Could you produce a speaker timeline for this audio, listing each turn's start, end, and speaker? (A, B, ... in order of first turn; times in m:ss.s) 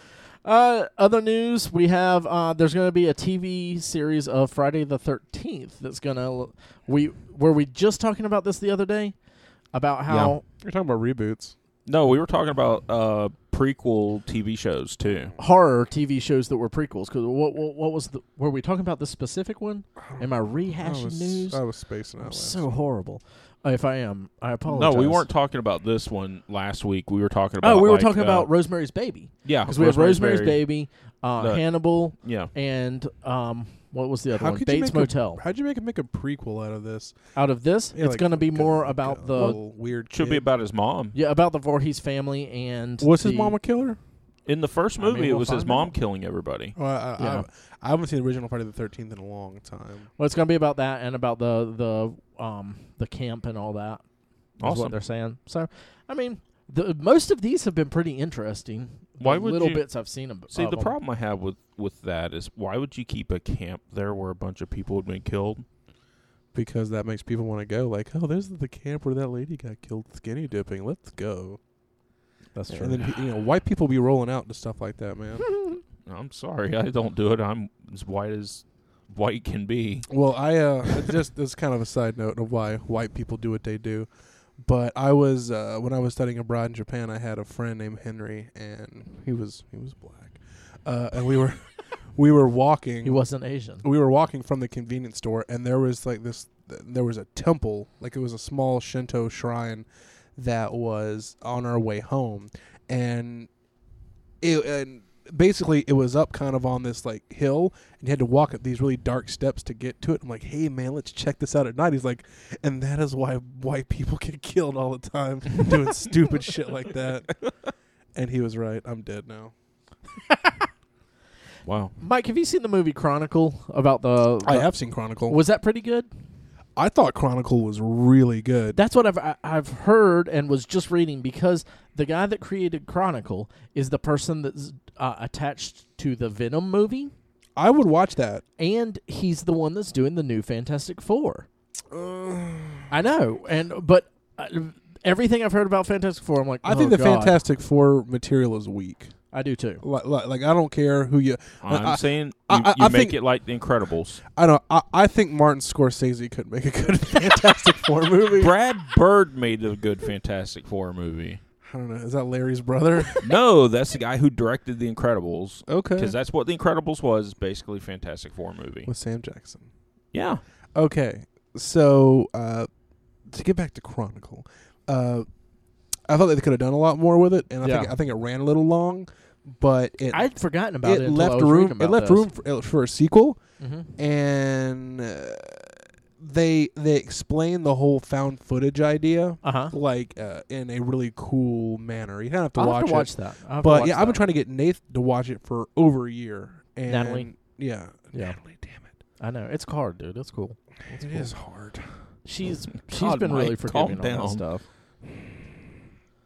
0:00.4-0:09.1 A
0:09.7-0:10.4 A
0:10.1-0:10.3 B
0:10.6-0:11.5 C
0:11.8-0:15.3 B
0:15.4-0:21.6 A
0:20.0-0:22.7 C
0:22.2-0:25.2 A
0:24.7-0:28.5 B
0:27.6-0:35.4 A
0:29.4-0:30.6 B
0:31.4-0:32.5 B
0:34.3-0:37.2 C
0:37.3-0:39.6 A
0:37.9-0:40.4 C
0:39.4-0:41.1 B
0:41.1-0:43.6 A
0:43.0-0:44.0 C
0:44.4-0:46.7 B
0:45.0-0:45.9 A
0:46.8-0:50.1 C
0:47.2-0:47.4 A
0:50.2-0:54.0 A
0:54.6-1:00.9 A
0:54.6-0:54.9 B
0:59.2-0:59.9 B
1:00.5-1:05.6 B
1:06.5-1:11.6 C
1:12.5-1:13.1 A
1:12.7-1:15.4 C
1:16.0-1:20.1 B
1:20.1-1:24.1 C
1:24.6-1:33.2 C
1:33.0-1:33.8 A
1:33.8-1:43.5 C
1:44.4-1:57.3 C
1:58.1-1:59.5 C
2:00.3-2:00.5 A
2:01.6-2:01.9 B
2:02.0-2:06.1 A
2:04.4-2:05.4 C
2:06.8-2:08.8 C
2:08.7-2:17.1 A
2:17.6-2:18.4 C
2:18.6-2:21.5 A
2:21.9-2:22.9 C
2:22.9-2:27.4 A
2:26.6-2:29.1 C
2:29.3-2:29.8 A
2:29.8-2:33.2 C
2:31.6-2:34.2 B
2:34.3-2:38.5 C
2:38.3-2:41.4 B
2:41.6-2:43.2 C
2:43.2-2:48.9 B
2:45.7-2:46.1 C
2:48.9-2:49.7 C
2:50.1-2:50.4 B
2:50.7-2:52.7 C
2:53.2-2:55.3 C
2:56.1-3:00.3 C
2:57.6-2:57.9 A
3:00.1-3:02.3 A
3:00.8-3:03.4 C
3:03.6-3:03.9 A
3:04.0-3:18.9 C
3:09.4-3:09.7 A
3:12.6-3:14.2 A
3:16.9-3:17.3 A
3:18.1-3:18.4 A
3:19.2-3:21.3 A
3:21.0-3:21.8 C
3:22.2-3:24.6 A
3:22.9-3:24.4 B